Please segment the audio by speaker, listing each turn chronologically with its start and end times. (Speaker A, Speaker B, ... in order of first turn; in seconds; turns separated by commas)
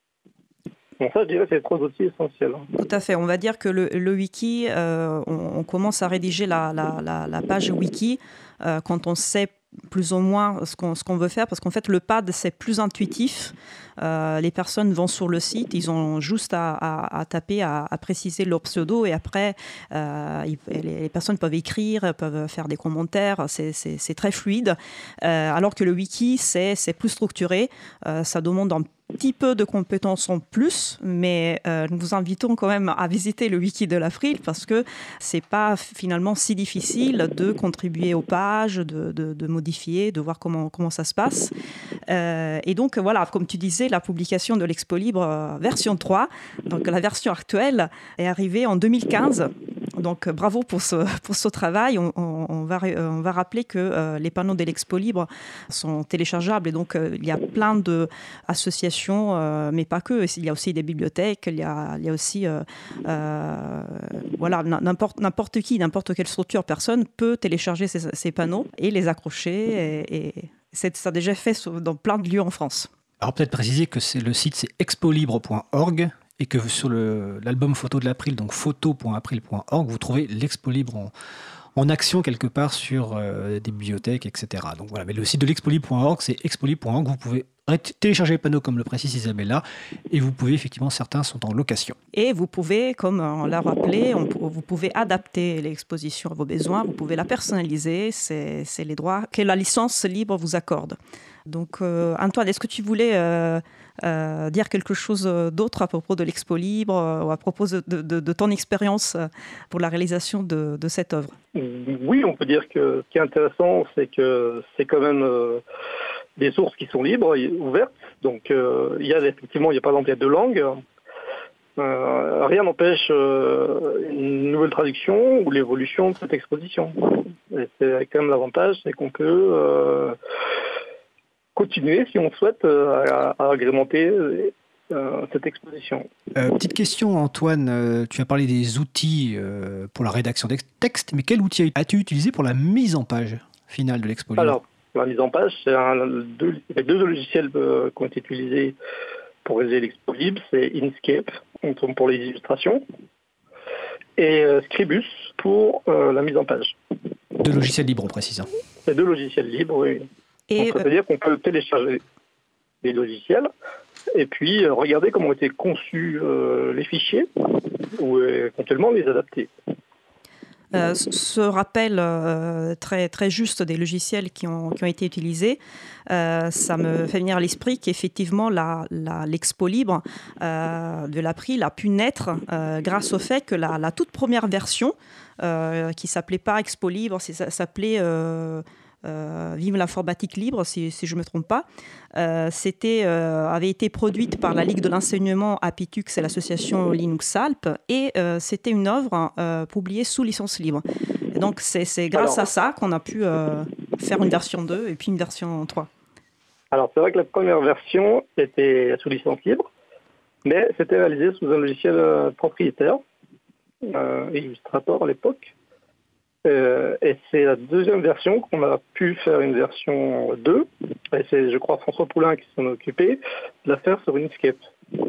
Speaker A: 1.0-2.6, Speaker B: 2.8-41.5, Speaker B: 42.1-72.9, Speaker C: 73.2-81.1, Speaker C: 81.8-92.0, Speaker B: 92.1-111.3, Speaker A: 111.5-115.6, Speaker A: 116.4-120.8, Speaker A: 121.8-130.2, Speaker A: 131.6-136.1, Speaker C: 136.3-144.6, Speaker A: 144.4-148.8, Speaker A: 149.4-152.8, Speaker A: 154.2-156.8, Speaker C: 157.4-158.5, Speaker A: 158.8-162.0, Speaker B: 160.5-160.8, Speaker A: 162.8-163.5, Speaker A: 164.1-167.3, Speaker A: 167.9-169.5, Speaker B: 170.7-205.9, Speaker A: 202.1-202.5, Speaker A: 206.7-209.7, Speaker A: 210.4-213.0, Speaker A: 213.8-215.5, Speaker A: 216.4-224.7